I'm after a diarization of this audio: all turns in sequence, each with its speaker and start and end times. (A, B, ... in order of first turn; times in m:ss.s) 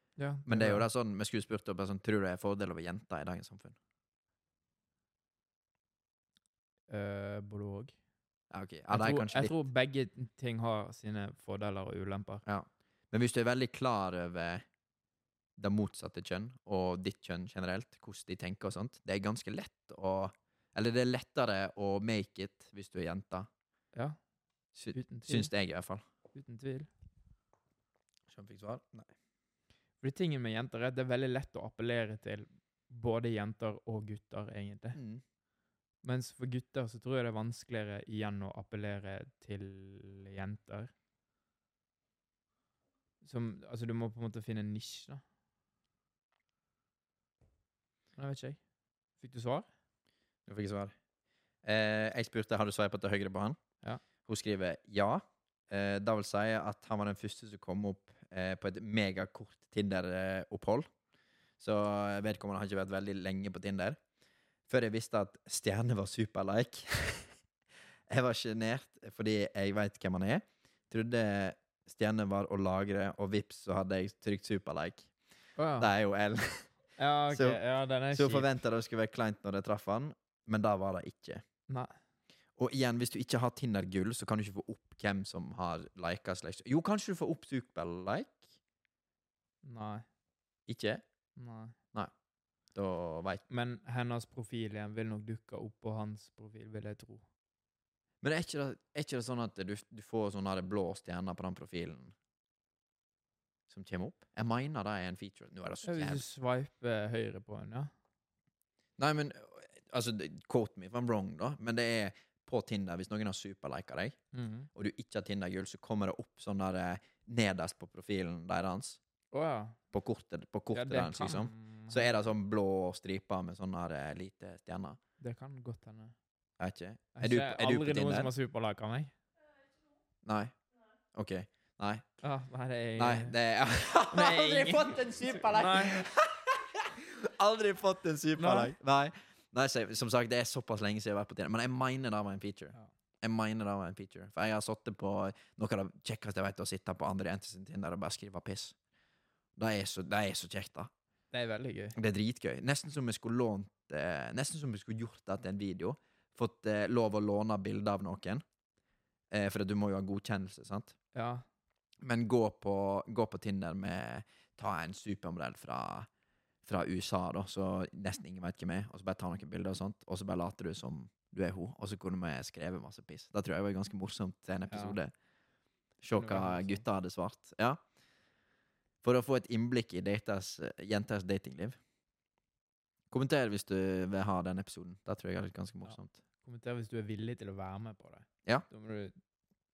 0:00.2-0:00.8 A
0:00.5-0:03.8 B
0:06.9-0:07.9 A
0:08.5-0:09.6 B
0:08.9-0:12.4 A
0:12.4-0:14.6 B
0:15.6-0:23.5 B
0:23.9-0:24.2 A
0:24.7-0:26.0 B
0:24.9-0:25.5 A
0:26.3-0:26.9 A
0:28.3-0:29.1 B
0:30.0-0:35.0 A
0:34.9-0:35.2 B
0:36.0-0:40.9 A
0:43.2-0:45.2 A
0:48.2-0:48.6 A
0:49.2-0:49.7 A
0:50.5-0:50.9 B
0:51.6-0:53.6 B
0:54.2-1:00.9 B
1:01.6-1:04.0 B
1:04.7-1:07.3 B
1:08.1-1:15.1 B
1:15.6-1:15.9 A
1:15.8-1:16.7 B
1:17.0-1:18.5 A
1:17.3-1:17.6 B
1:18.1-1:21.4 B
1:21.7-1:21.9 A
1:22.6-1:28.4 B
1:29.6-1:30.0 A
1:30.7-1:31.0 B
1:31.4-1:31.7 A
1:32.7-1:33.4 B
1:33.5-1:37.2 A
1:38.2-1:42.1 B
1:43.7-1:46.2 B
1:45.8-1:47.9 A
1:49.0-1:54.2 B
1:54.3-1:54.7 A
1:54.7-1:59.0 B
1:59.3-1:59.8 A
1:59.9-2:05.0 B
2:00.7-2:02.1 A
2:05.2-2:06.1 A
2:06.6-2:08.3 B
2:07.1-2:09.1 A
2:10.2-2:10.6 B
2:11.1-2:12.0 B
2:12.2-2:13.4 A
2:13.0-2:28.8 B
2:14.1-2:16.0 A
2:18.4-2:18.7 A
2:29.6-2:30.9 B
2:31.3-2:32.0 A
2:31.9-2:38.4 B
2:39.3-2:41.0 B
2:41.1-2:41.4 A
2:42.0-2:46.1 B
2:46.6-2:55.1 B
2:54.7-2:55.0 A
2:56.0-2:57.8 B
2:56.2-2:56.8 A
2:59.0-3:01.8 B
3:03.1-3:06.2 B
3:05.8-3:09.2 A